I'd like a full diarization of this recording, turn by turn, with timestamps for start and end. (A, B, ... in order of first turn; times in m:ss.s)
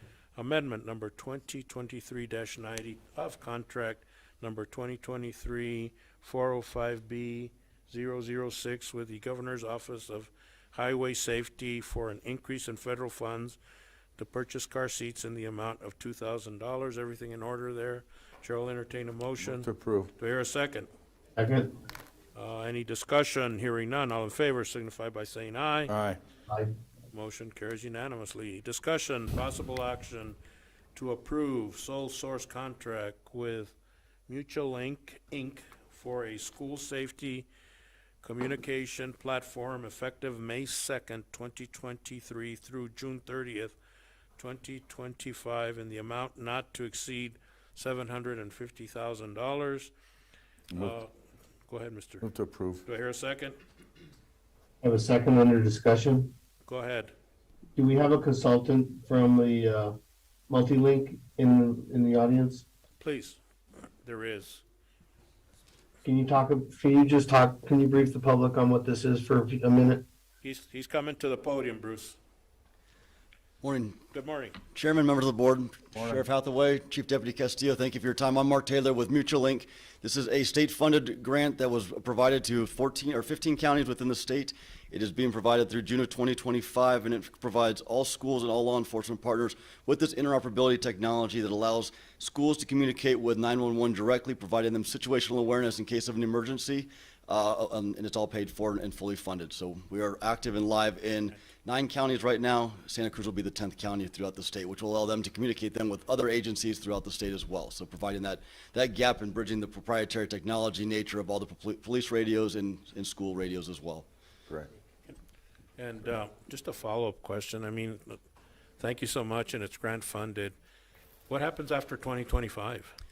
0:00.4-0:13.6 A
0:14.2-0:20.9 A
0:19.4-0:20.1 B
0:21.4-0:21.7 C
0:22.3-0:25.9 A
0:25.9-0:26.2 B
0:27.1-0:30.4 A
0:30.9-0:33.7 A
0:34.3-0:37.5 A
0:38.2-0:43.8 A
0:44.4-0:49.9 A
0:50.7-0:51.0 B
0:50.8-0:51.1 A
0:51.7-0:52.3 A
0:52.2-0:52.8 B
0:52.8-0:53.6 A
0:54.8-0:56.3 C
0:56.6-0:57.1 A
0:57.8-1:00.0 C
1:00.5-1:02.6 C
1:03.0-1:03.4 A
1:04.0-1:04.6 A
1:06.0-1:10.0 C
1:10.4-1:12.2 A
1:13.6-1:14.0 D
1:14.1-1:14.6 A
1:14.7-1:54.0 D
1:16.0-1:16.2 B
1:55.8-1:58.2 A
1:58.8-2:00.5 A
2:01.3-2:02.9 A